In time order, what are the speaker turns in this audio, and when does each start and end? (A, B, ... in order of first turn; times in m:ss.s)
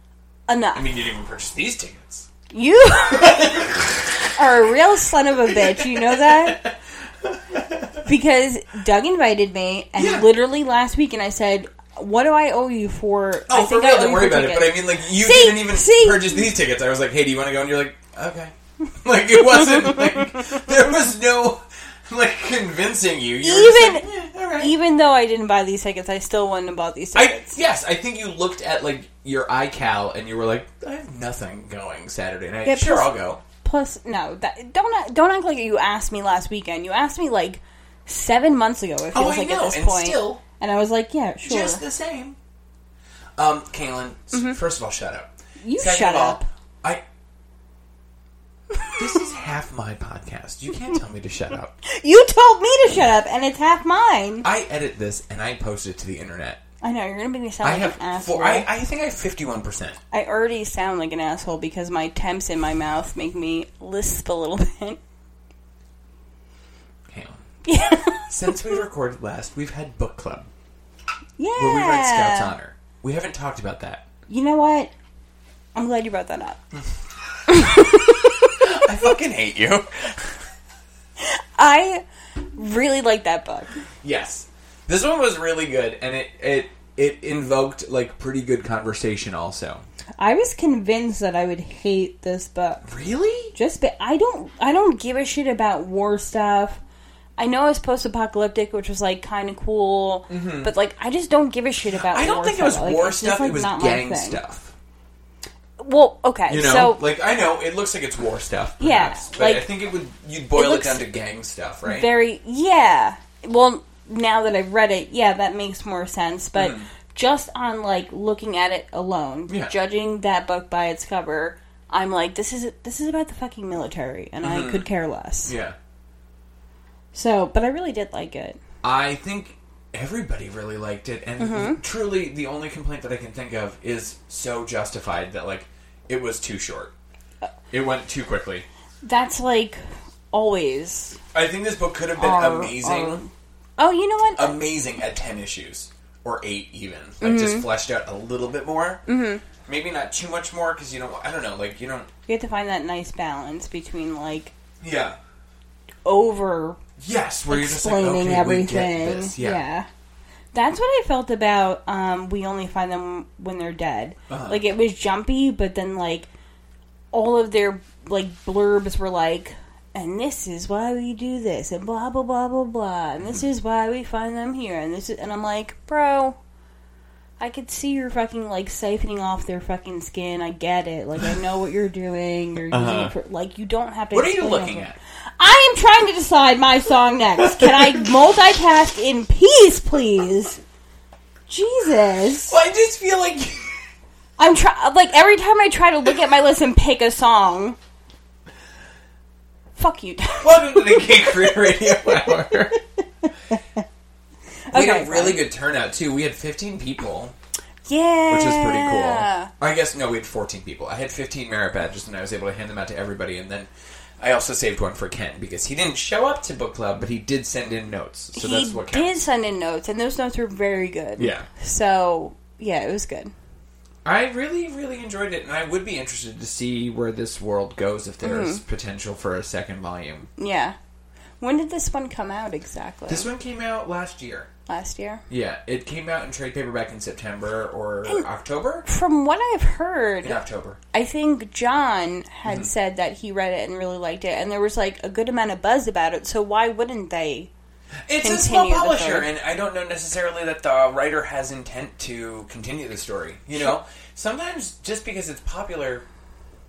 0:00.5-0:00.9 A
0:00.7-0:02.3 B
0:02.5-0:03.8 A
0:03.1-0:04.3 B
0:04.3-0:06.6 A
0:05.5-0:08.1 B
0:08.0-0:16.4 A
0:10.0-0:10.3 B
0:13.5-0:24.7 B
0:23.4-0:24.1 A
0:24.6-0:27.6 A
0:27.1-0:33.4 B
0:32.6-0:41.8 A
0:39.1-0:40.4 B
0:41.4-0:42.4 B
0:43.4-0:47.0 B
0:44.3-0:44.6 A
0:45.6-0:46.5 A
0:49.0-0:51.7 B
0:51.8-0:54.5 A
0:54.4-0:56.6 B
0:56.8-0:58.7 A
0:57.6-1:00.0 B
1:00.1-1:05.0 A
1:07.1-1:10.5 B
1:07.6-1:08.5 A
1:11.4-1:12.5 A
1:11.6-1:14.0 B
1:14.3-1:14.9 A
1:15.7-1:16.6 A
1:17.5-1:18.6 A
1:18.6-1:20.4 B
1:21.2-1:22.0 A
1:22.5-1:23.8 A
1:24.0-1:29.8 B
1:30.2-1:32.9 A
1:32.8-1:33.5 B
1:33.5-1:36.8 A
1:37.4-1:44.4 A
1:40.3-1:40.7 B
1:41.9-1:44.7 B
1:45.8-1:47.0 A
1:46.5-1:52.1 B
1:48.8-1:49.7 A
1:50.5-1:51.0 A
1:51.8-2:05.5 A
1:56.5-1:56.9 B
1:59.5-1:59.7 B
2:04.4-2:04.9 B
2:05.4-2:05.8 B
2:07.1-2:08.6 A
2:08.8-2:16.9 B
2:11.4-2:11.8 A
2:17.7-2:18.6 B
2:19.0-2:19.8 A
2:20.3-2:21.2 A
2:21.3-2:23.2 B
2:22.2-2:24.6 A
2:24.4-2:29.0 B
2:27.2-2:27.7 A
2:29.1-2:29.4 A
2:29.6-2:32.1 B
2:32.3-2:34.5 A
2:34.8-2:35.2 B
2:36.0-2:36.8 A
2:37.0-2:39.6 B
2:37.5-2:39.9 A
2:40.5-2:46.3 A
2:44.3-2:44.6 B
2:47.1-2:56.4 A
2:57.4-3:10.6 A
3:02.7-3:03.1 B
3:04.1-3:05.0 B
3:07.4-3:08.1 B
3:11.5-3:12.6 A
3:12.5-3:13.8 B
3:14.4-3:17.8 A
3:19.8-3:22.2 A
3:20.4-3:22.8 B
3:23.2-3:23.8 A
3:24.7-3:25.4 A
3:24.7-3:27.3 B
3:27.8-3:29.5 A
3:28.3-3:39.2 B
3:38.3-3:43.3 A
3:41.2-3:41.5 B
3:44.0-3:50.3 B
3:48.2-3:48.6 A
3:50.4-3:50.8 A
3:51.4-3:53.3 A
3:53.1-3:54.5 B
3:54.7-3:55.2 A
3:55.3-3:58.8 B
3:58.8-4:00.4 A
4:00.2-4:00.8 B
4:00.9-4:07.5 A
4:08.1-4:16.0 B
4:08.2-4:09.3 A